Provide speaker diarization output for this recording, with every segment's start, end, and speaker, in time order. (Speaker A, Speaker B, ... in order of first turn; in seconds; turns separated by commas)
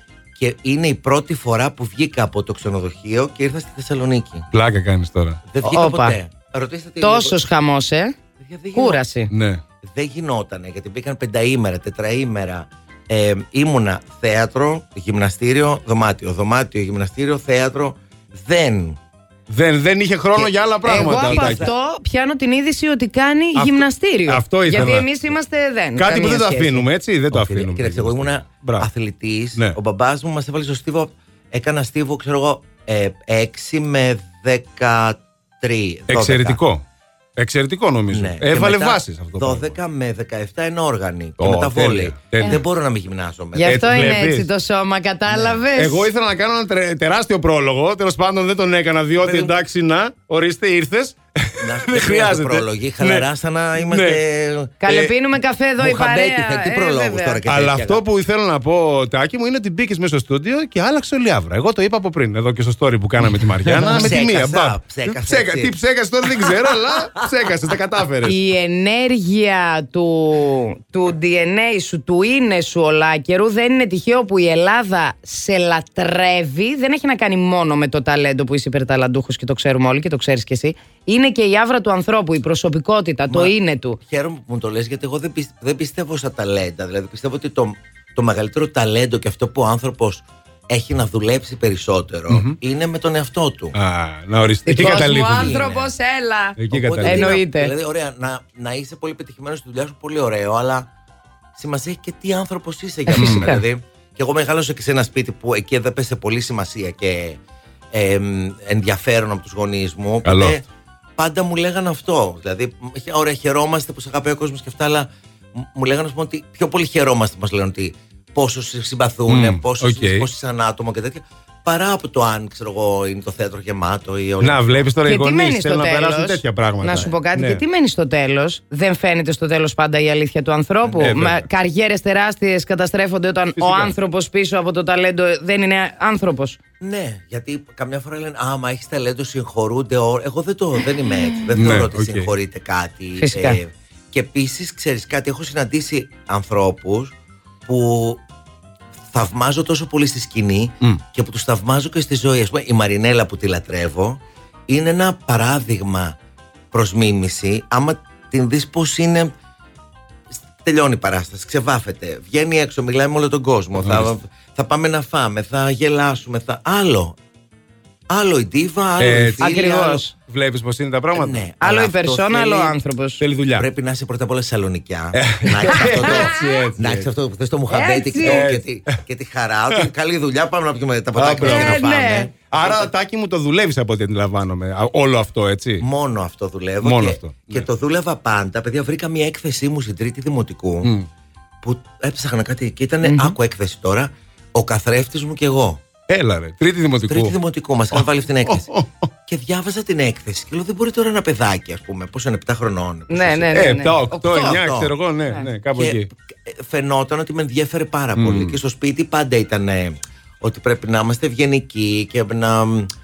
Speaker A: 0.3-4.5, Speaker B: 4.5-5.4, Speaker A: 5.5-7.4, Speaker C: 5.6-6.2, Speaker C: 7.0-8.2, Speaker A: 8.4-9.0, Speaker C: 8.7-9.3, Speaker B: 9.3-9.6, Speaker A: 9.8-19.0, Speaker B: 19.5-21.7, Speaker A: 20.3-21.7, Speaker C: 20.9-26.9, Speaker B: 23.5-25.1, Speaker B: 26.0-28.9, Speaker A: 27.3-36.6, Speaker B: 36.1-36.8, Speaker B: 37.4-39.7, Speaker A: 38.1-43.8, Speaker B: 41.4-42.6, Speaker C: 43.5-46.1, Speaker B: 43.6-44.5, Speaker A: 45.3-45.6, Speaker B: 45.8-53.2, Speaker A: 49.2-49.5, Speaker A: 51.6-54.8, Speaker B: 53.8-54.2, Speaker C: 54.8-57.4, Speaker B: 54.9-55.1, Speaker A: 55.8-58.0, Speaker B: 57.5-68.4, Speaker A: 63.6-65.8, Speaker C: 68.2-84.0, Speaker A: 83.3-93.7, Speaker B: 92.3-92.5, Speaker B: 93.7-95.6, Speaker C: 94.7-97.7, Speaker A: 94.7-95.9, Speaker B: 96.6-97.3, Speaker A: 96.7-100.9, Speaker A: 101.5-107.4, Speaker C: 103.1-103.6, Speaker B: 103.2-103.5, Speaker A: 107.9-110.6, Speaker B: 110.2-110.6, Speaker A: 111.2-124.8, Speaker B: 119.3-120.3, Speaker B: 124.4-127.6, Speaker C: 125.1-136.6, Speaker A: 130.8-131.1, Speaker B: 131.0-131.4, Speaker B: 133.5-133.9, Speaker A: 136.8-147.1, Speaker B: 141.5-142.3, Speaker C: 143.2-143.6, Speaker A: 147.7-148.2, Speaker A: 149.1-156.2, Speaker A: 156.7-159.3, Speaker A: 160.3-167.2, Speaker B: 163.8-164.1, Speaker A: 168.1-170.0, Speaker B: 169.0-171.4, Speaker C: 169.4-170.1, Speaker A: 171.1-172.7, Speaker C: 171.6-173.2, Speaker B: 173.2-173.7, Speaker A: 173.6-182.9, Speaker B: 175.1-177.1, Speaker C: 175.7-176.6, Speaker C: 177.7-178.5, Speaker B: 178.2-179.0, Speaker B: 181.2-181.8, Speaker C: 181.4-182.3, Speaker B: 182.5-185.8, Speaker A: 185.8-190.9, Speaker B: 186.8-187.7, Speaker B: 190.8-191.1, Speaker A: 191.6-195.8, Speaker C: 193.0-193.3, Speaker B: 196.1-197.3, Speaker A: 197.1-198.7, Speaker B: 197.9-199.1, Speaker A: 199.3-204.9, Speaker C: 203.1-204.6, Speaker B: 203.5-206.1, Speaker A: 205.8-212.9, Speaker B: 208.2-208.6